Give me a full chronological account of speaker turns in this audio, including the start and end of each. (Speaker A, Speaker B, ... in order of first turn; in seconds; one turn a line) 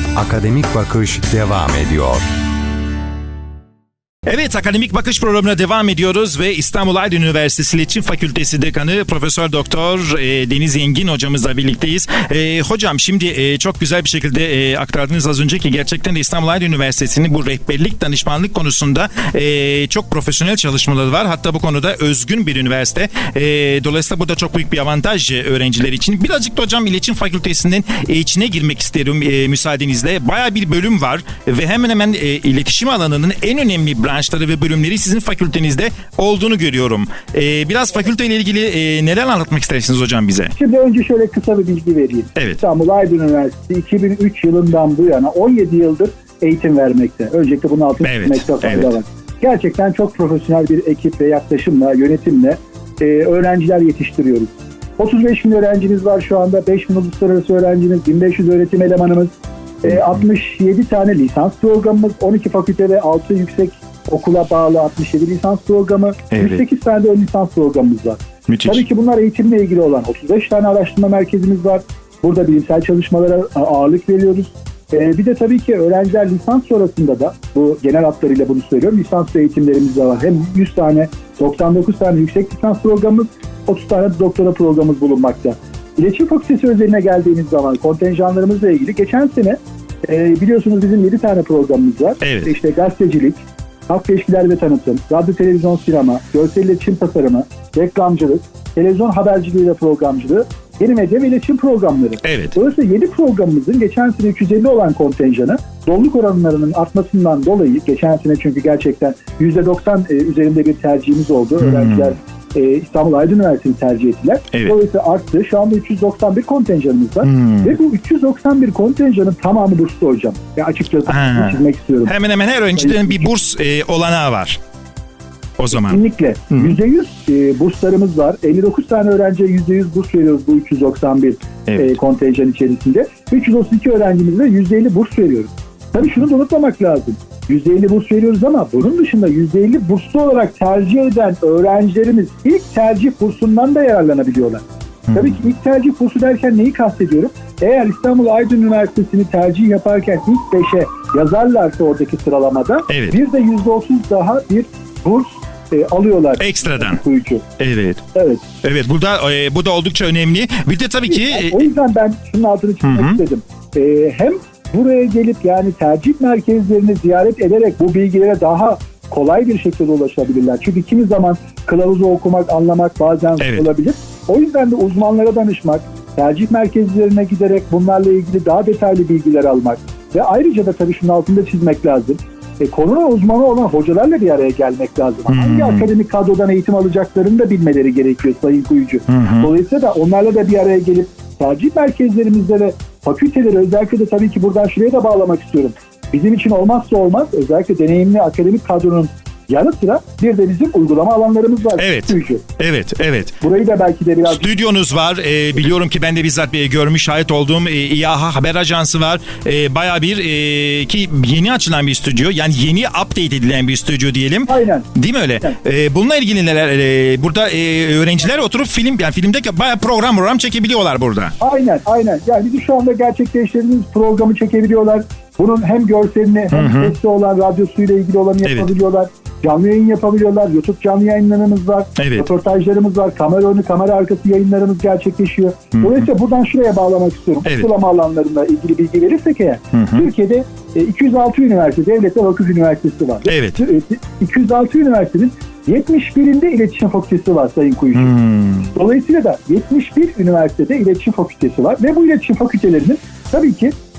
Speaker A: 0.2-2.2
Speaker B: 4.3-40.5
Speaker C: 40.5-59.3
Speaker B: 48.0-49.0
Speaker C: 59.8-122.1
Speaker B: 66.3-66.6
Speaker B: 68.5-68.8
Speaker B: 92.2-92.5
Speaker B: 102.2-102.6
Speaker B: 111.6-112.1
Speaker B: 117.2-117.7
Speaker B: 121.1-124.6
Speaker C: 122.8-123.3
Speaker B: 125.6-126.0
Speaker C: 125.7-157.4
Speaker B: 126.5-126.8
Speaker B: 131.7-132.0
Speaker B: 152.9-153.2
Speaker B: 156.4-157.0
Speaker B: 157.6-158.0
Speaker C: 158.1-158.4
Speaker B: 158.6-161.7
Speaker C: 161.1-202.4
Speaker B: 162.8-163.2
Speaker B: 173.4-173.7
Speaker B: 185.3-185.8
Speaker B: 189.1-189.5
Speaker B: 201.8-203.3
Speaker C: 203.4-204.4
Speaker B: 204.3-221.3
Speaker C: 214.5-214.9
Speaker C: 221.4-248.1
Speaker B: 226.5-226.9
Speaker B: 228.4-228.7
Speaker B: 232.0-232.3
Speaker B: 235.8-236.1
Speaker B: 239.7-240.1
Speaker B: 243.3-243.6
Speaker B: 247.9-248.7
Speaker C: 248.7-253.7